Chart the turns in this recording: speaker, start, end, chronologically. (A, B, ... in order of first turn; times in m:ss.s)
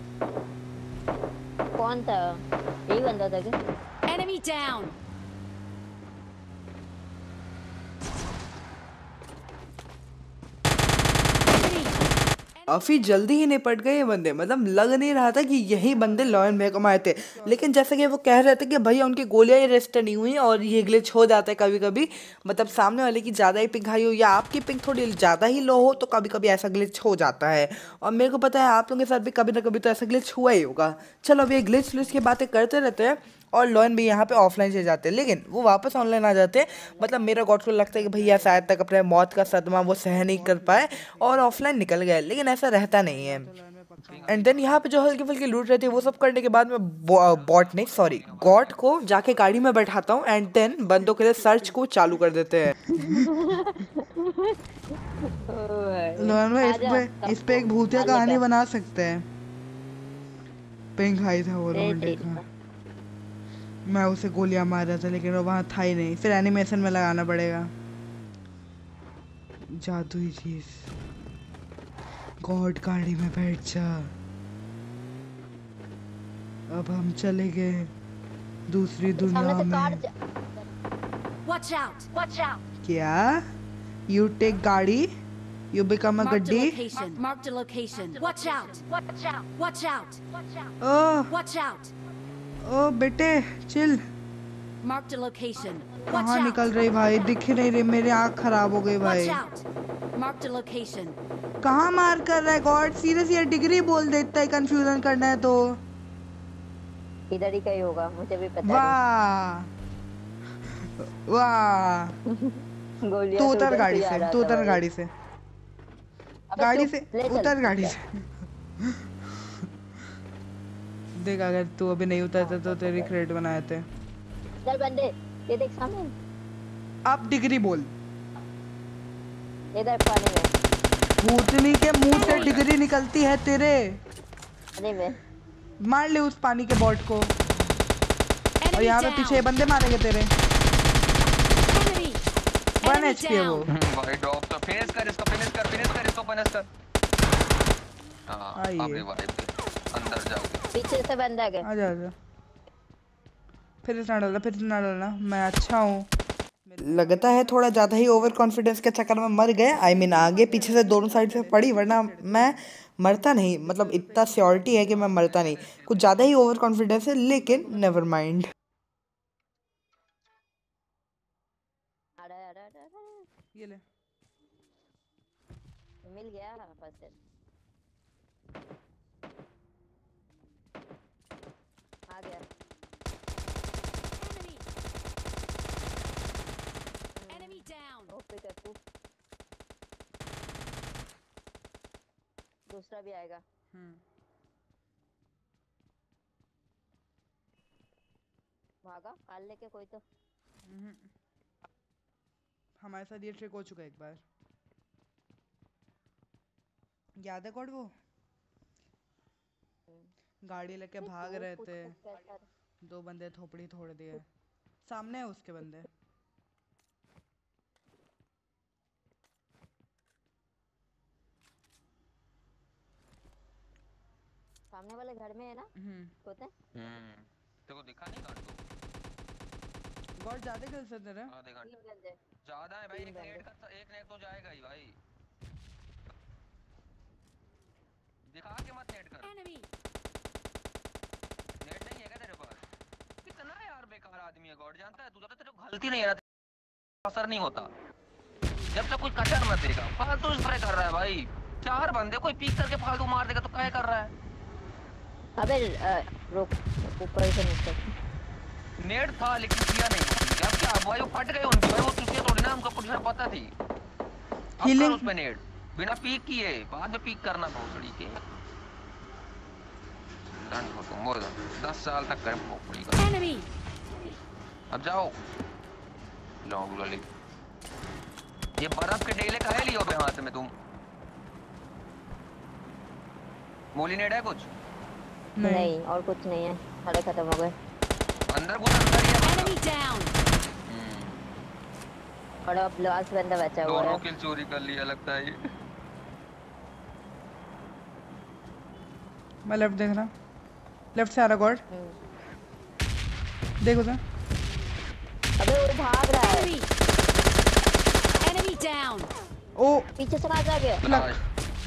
0:01.8-0:02.4 A
0:02.9-0:03.6 A
0:04.1-0:04.9 B
0:12.7-0:43.5 C
0:15.7-0:17.8 D
0:21.9-0:22.9 D
0:25.7-0:26.3 A
0:36.7-0:37.4 A
0:38.0-0:38.4 D
0:38.2-0:38.7 A
0:39.6-0:41.5 D
0:43.1-0:44.9 D
0:44.0-0:44.8 E
0:44.3-0:52.9 C
0:45.9-0:46.1 D
0:47.2-0:49.6 E
0:51.1-0:51.6 D
0:52.9-0:54.6 A
0:55.5-0:58.4 A
0:56.2-0:59.2 D
1:01.0-1:02.4 D
1:01.7-1:02.4 A
1:03.9-1:07.7 D
1:09.8-1:10.8 D
1:12.4-1:14.1 D
1:16.7-1:17.9 D
1:18.7-1:20.0 D
1:19.2-1:20.7 A
1:21.5-1:22.6 B
1:22.8-1:23.4 D
1:24.1-1:25.1 D
1:25.7-1:26.8 D
1:26.2-1:30.7 B
1:28.2-1:28.8 A
1:30.8-1:31.4 D
1:31.3-1:31.9 B
1:32.6-1:34.0 D
1:34.8-1:36.6 B
1:36.0-1:39.4 D
1:39.0-1:39.6 B
1:40.2-1:41.2 B
1:41.6-1:45.8 D
1:47.3-1:49.0 A
1:48.6-1:49.7 D
1:51.0-1:52.1 D
1:52.3-1:54.8 A
1:53.4-1:55.1 D
1:56.5-1:58.0 A
1:56.6-1:58.0 D
2:01.2-2:03.8 D
2:02.4-2:03.1 A
2:04.6-2:06.1 A
2:07.1-2:07.9 D
2:09.7-2:10.5 A
2:11.2-2:14.0 D
2:12.1-2:12.7 E
2:14.8-2:15.2 A
2:15.8-2:17.3 D
2:18.7-2:19.4 B
2:18.7-2:20.3 D
2:22.8-2:23.7 D
2:22.9-2:23.6 B
2:23.7-2:26.7 E
2:28.3-2:30.7 E
2:28.6-2:29.0 D
2:30.7-2:31.7 A
2:31.6-2:32.1 D
2:33.8-2:36.1 D
2:36.6-2:38.4 D
2:36.8-2:48.5 C
2:39.7-2:42.6 D
2:43.7-2:44.8 D
2:44.8-2:46.4 E
2:47.4-2:47.9 D
2:52.2-2:53.3 A
2:53.6-2:53.8 D
2:56.1-2:57.1 A
3:02.1-3:02.4 A
3:04.2-3:04.6 B
3:07.2-3:08.8 A
3:12.7-3:13.4 A
3:13.7-3:14.0 D
3:18.8-3:20.0 A
3:20.7-3:21.1 D
3:22.8-3:24.2 D
3:27.2-3:27.9 D
3:30.5-3:32.0 D
3:31.0-3:32.4 A
3:32.8-3:34.2 D
3:34.9-3:35.9 D
3:44.7-3:45.7 A
3:45.8-3:46.1 D
3:46.2-3:46.5 A
3:46.7-3:48.6 E
3:50.2-3:51.3 D
3:51.3-3:51.7 E
3:51.6-3:52.2 A
3:52.4-3:55.0 E
3:52.9-3:53.4 A
3:58.3-3:59.4 E
4:01.6-4:02.6 E
4:03.2-4:06.2 E
4:07.0-4:07.7 E
4:08.7-4:14.1 E
4:15.4-4:17.9 A
4:18.8-4:23.5 E
4:24.6-4:28.2 E
4:24.6-4:25.1 D
4:30.5-4:33.4 E
4:34.7-4:35.2 E
4:36.4-4:37.1 E
4:38.6-4:40.5 E
4:43.8-4:44.5 E
4:45.4-4:45.7 D
4:45.4-4:47.5 A
4:48.3-4:49.7 E
4:49.7-4:50.0 B
4:50.7-4:51.2 E
4:52.4-4:54.0 A
4:53.7-4:55.4 E
4:59.5-5:00.1 D
5:01.0-5:01.6 D
5:01.7-5:02.0 A
5:03.6-5:04.0 D
5:05.4-5:06.6 A
5:08.3-5:09.1 B
5:09.6-5:09.9 D
5:10.0-5:10.8 A
5:10.8-5:11.2 E
5:10.9-5:11.1 D